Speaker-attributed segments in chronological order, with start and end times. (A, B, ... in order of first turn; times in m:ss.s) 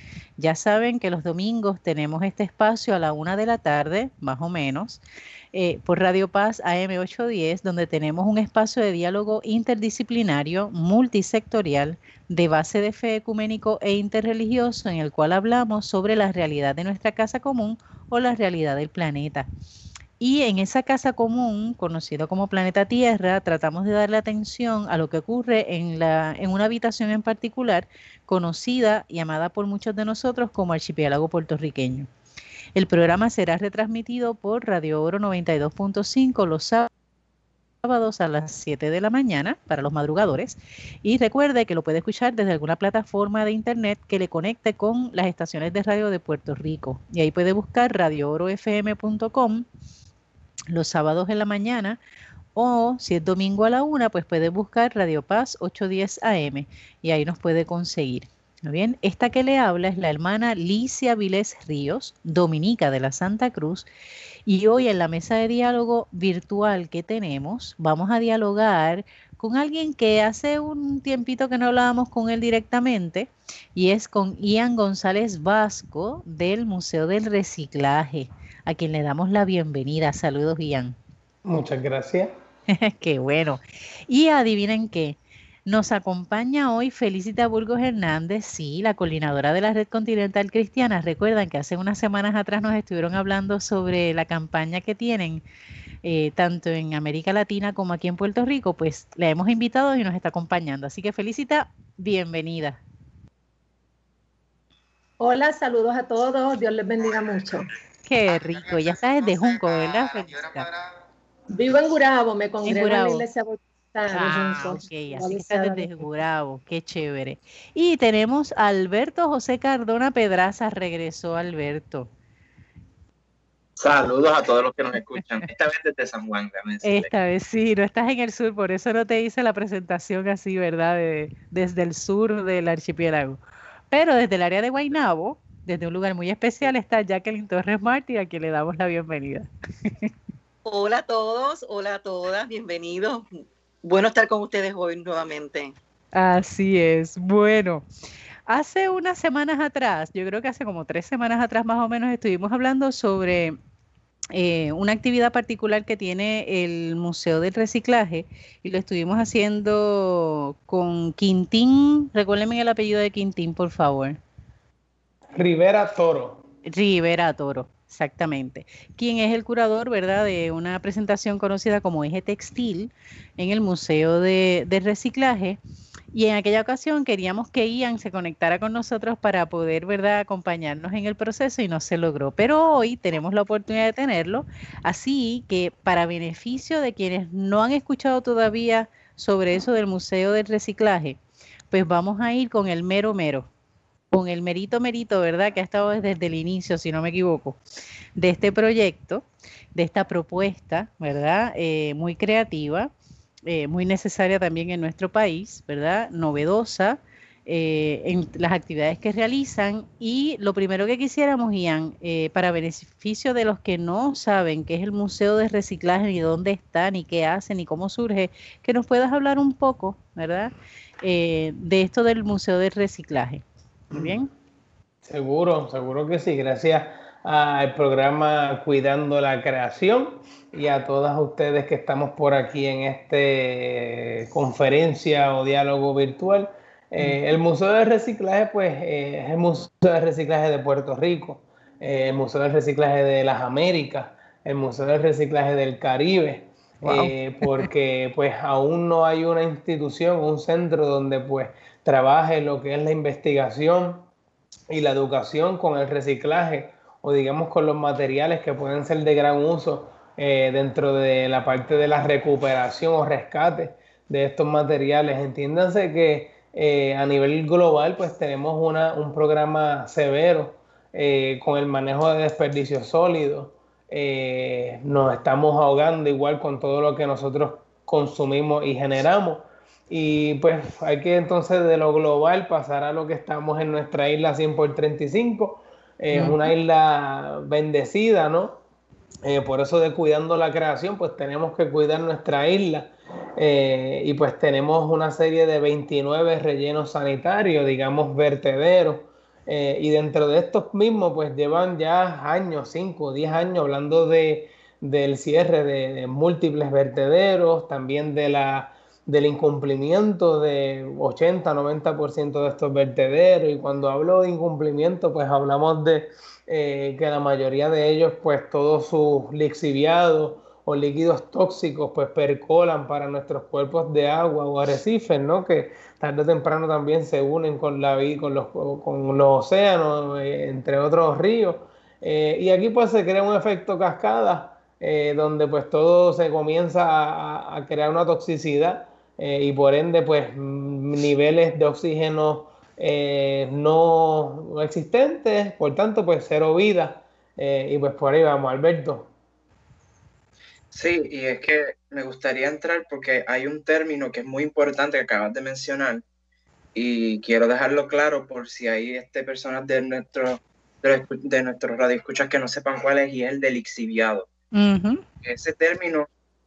0:00.4-0:05.0 A
0:05.5-0:19.5 A
0:20.2-0:32.1 A
0:32.7-0:36.9 A
0:37.8-0:49.6 A
0:50.7-0:52.0 A
0:52.5-1:03.9 A
1:04.5-1:20.9 A
1:21.4-1:22.3 B
1:22.7-1:35.4 A
1:36.0-1:42.8 A
1:45.2-1:47.7 C
1:48.0-1:50.7 A
1:51.5-1:56.1 C
1:52.6-1:53.2 A
1:54.1-2:02.1 A
2:03.8-2:07.1 D
2:05.2-2:05.5 A
2:06.8-2:13.4 A
2:13.9-2:20.1 A
2:20.6-2:25.8 E
2:26.2-2:27.8 A
2:28.5-2:33.6 A
2:34.3-2:44.2 A
2:45.3-2:46.4 B
2:46.7-2:55.6 A
2:56.1-3:11.2 A
3:11.7-3:13.5 A
3:14.1-3:17.6 A
3:18.2-3:22.9 A
3:23.5-3:44.3 A
3:45.0-4:14.1 B
4:06.8-4:07.7 A
4:14.7-4:48.6 B
4:46.1-4:46.5 A
4:49.2-5:49.1 B
5:50.7-5:56.0 D
5:56.8-6:04.3 D
6:04.5-6:05.0 A
6:05.2-6:06.1 D